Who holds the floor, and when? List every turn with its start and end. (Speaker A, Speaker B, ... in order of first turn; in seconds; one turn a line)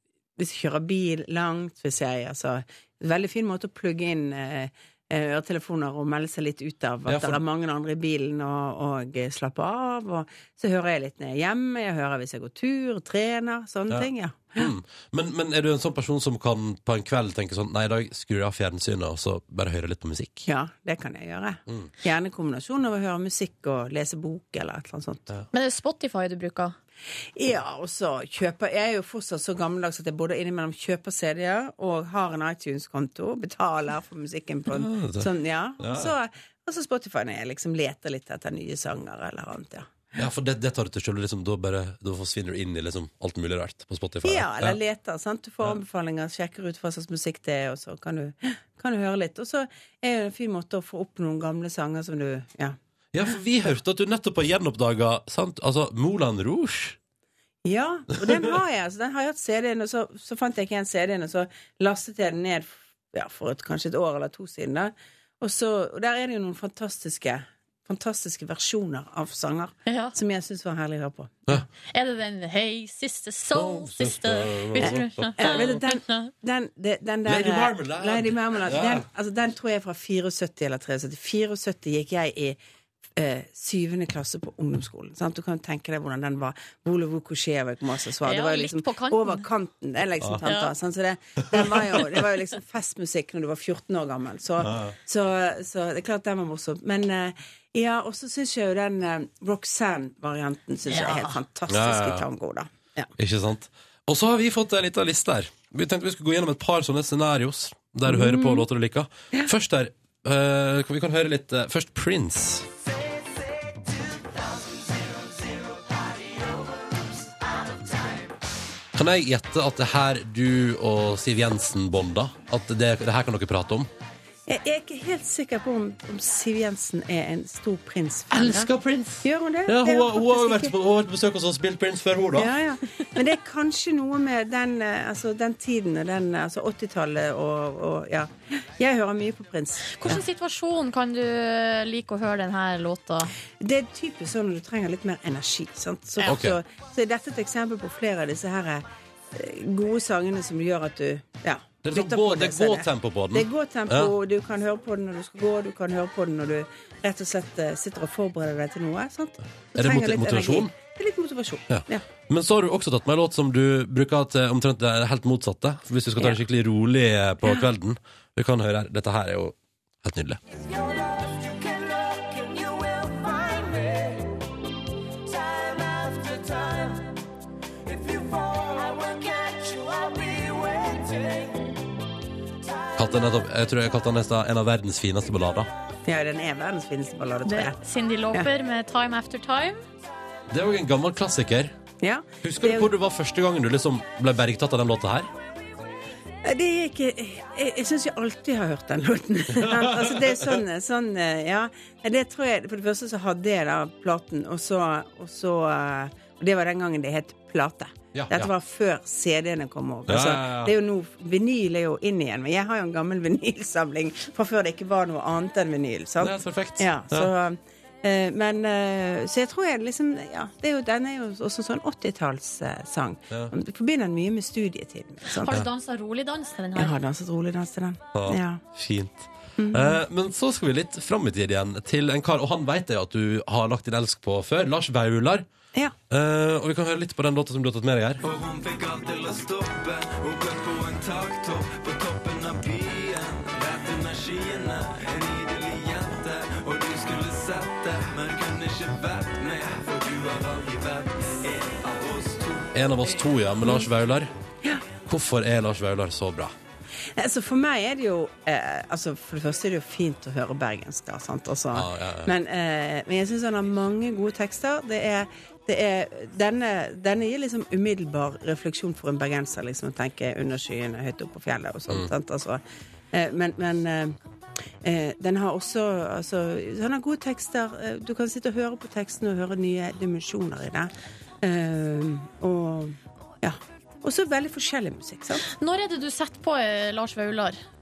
Speaker A: 0.4-14.7
Speaker B: 7.1-7.4
Speaker B: 13.9-20.5
Speaker A: 20.4-25.3
Speaker C: 25.5-26.8
Speaker A: 27.4-40.0
Speaker B: 34.7-36.1
Speaker B: 40.2-44.8
Speaker A: 44.2-52.8
Speaker B: 53.1-57.0
Speaker A: 57.6-71.6
Speaker C: 69.9-70.2
Speaker C: 71.9-76.3
Speaker B: 73.5-75.8
Speaker A: 74.8-82.6
Speaker B: 77.2-79.1
Speaker A: 83.2-103.1
Speaker C: 88.2-89.5
Speaker C: 90.4-90.7
Speaker B: 94.6-94.9
Speaker C: 100.9-101.3
Speaker B: 101.7-102.3
Speaker B: 103.2-112.7
Speaker A: 108.1-108.6
Speaker B: 119.0-123.9
Speaker A: 124.5-128.7
Speaker B: 128.3-132.5
Speaker A: 129.2-130.7
Speaker A: 132.3-140.2
Speaker C: 139.9-143.3
Speaker A: 143.6-162.1
Speaker B: 146.2-146.6
Speaker B: 151.8-154.1
Speaker B: 159.8-160.7
Speaker B: 161.7-170.4
Speaker B: 183.0-185.7
Speaker A: 186.1-187.8
Speaker C: 187.4-189.8
Speaker B: 190.5-191.7
Speaker A: 192.0-192.9
Speaker B: 192.4-195.3
Speaker A: 196.4-225.6
Speaker B: 199.6-200.4
Speaker B: 208.1-208.5
Speaker B: 210.1-210.7
Speaker B: 216.2-217.3
Speaker C: 225.4-226.9
Speaker A: 226.8-228.6
Speaker B: 228.2-235.5
Speaker A: 229.6-230.0
Speaker B: 236.1-238.2
Speaker D: 238.2-253.1
Speaker B: 252.7-254.3
Speaker B: 255.1-256.5
Speaker A: 257.2-274.2
Speaker B: 261.7-262.3
Speaker A: 274.8-280.9
Speaker A: 281.4-285.5
Speaker C: 285.5-287.6